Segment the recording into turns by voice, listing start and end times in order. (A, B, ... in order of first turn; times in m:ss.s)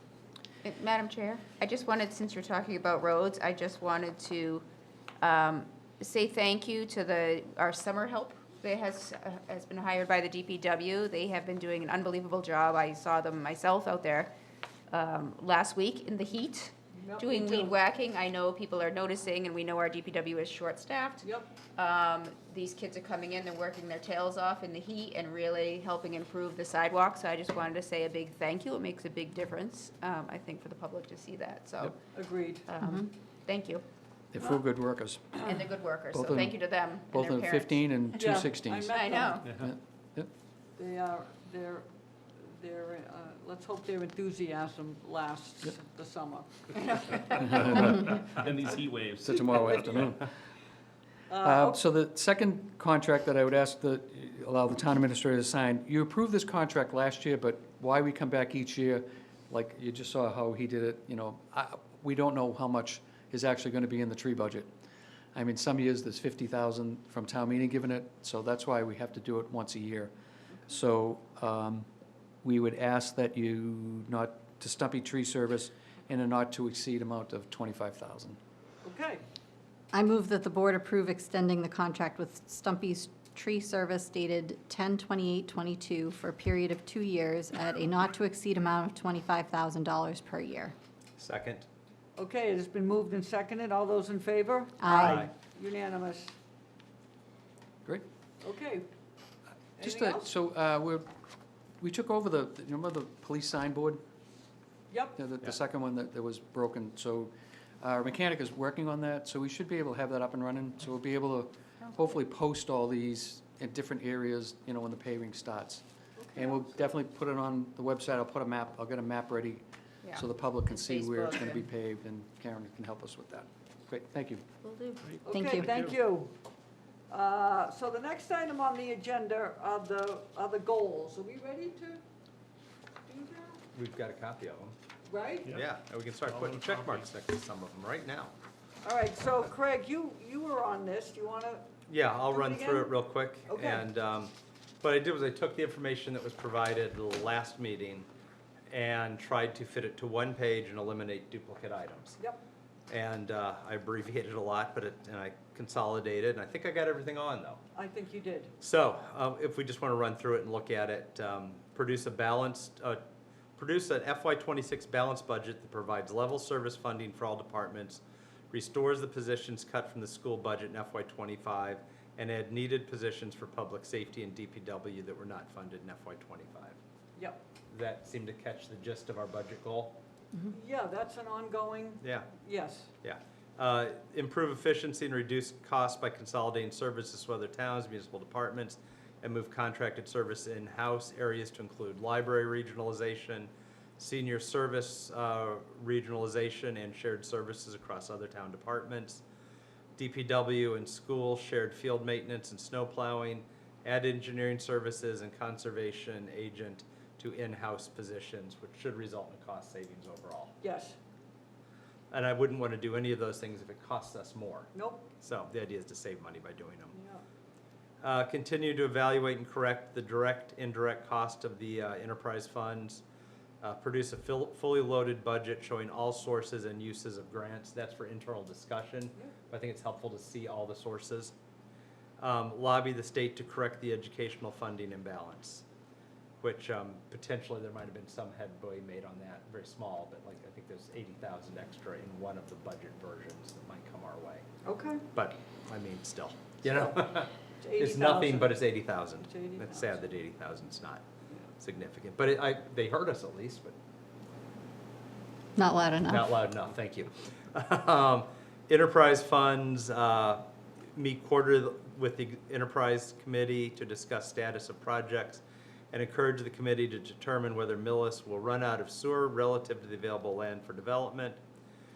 0:00.6-0:04.6 A
0:05.2-0:14.3 A
0:14.9-0:32.0 A
0:17.0-0:17.8 B
0:21.2-0:21.5 B
0:32.1-0:32.7 B
0:32.7-0:33.8 A
0:34.3-0:35.5 C
0:35.4-0:37.8 A
0:36.1-0:40.3 C
0:38.1-0:39.6 B
0:38.9-0:39.6 A
0:40.8-0:41.9 B
0:42.5-0:46.5 B
0:47.0-0:47.3 B
0:47.4-0:48.4 C
0:47.6-0:50.3 D
0:49.2-0:50.3 C
0:51.3-0:51.8 B
0:51.4-1:04.7 C
1:05.3-1:10.1 C
1:10.7-1:11.9 C
1:12.4-1:18.4 C
1:18.8-1:19.2 B
1:19.9-1:30.7 E
1:31.2-1:31.7 F
1:32.2-1:36.3 B
1:34.8-1:35.2 E
1:34.9-1:35.3 F
1:38.4-1:38.8 B
1:39.8-1:40.2 B
1:39.8-1:41.0 C
1:41.8-1:44.0 C
1:44.9-1:45.2 B
1:45.2-1:55.8 C
1:56.3-2:04.4 C
2:00.0-2:01.5 A
2:04.6-2:05.0 A
2:05.0-2:05.9 D
2:05.2-2:06.3 B
2:05.3-2:05.8 E
2:07.1-2:12.0 B
2:13.1-2:13.6 B
2:13.7-2:14.8 F
2:15.1-2:15.6 B
2:15.5-2:18.3 F
2:16.3-2:17.0 D
2:18.8-2:21.7 B
2:21.9-2:28.1 F
2:22.2-2:22.9 B
2:23.5-2:23.8 B
2:28.7-2:32.2 F
2:32.9-2:37.6 F
2:37.7-2:38.5 B
2:38.6-2:43.0 F
2:43.6-2:56.8 F
2:57.7-3:00.0 F
3:00.5-3:02.9 B
3:02.0-3:02.3 F
3:03.0-3:19.2 F
3:20.0-3:30.5 F
3:30.6-3:31.0 B
3:32.1-3:36.9 F
3:34.7-3:35.1 B
3:36.9-3:37.2 B
3:38.0-3:43.0 F
3:43.6-3:51.3 F
3:52.2-3:55.6 F
3:56.4-4:04.4 F
4:04.6-4:05.0 B
4:05.1-4:11.0 F
4:06.6-4:10.1 B
4:11.6-4:13.7 F
4:15.6-4:16.3 E
4:16.1-4:31.4 F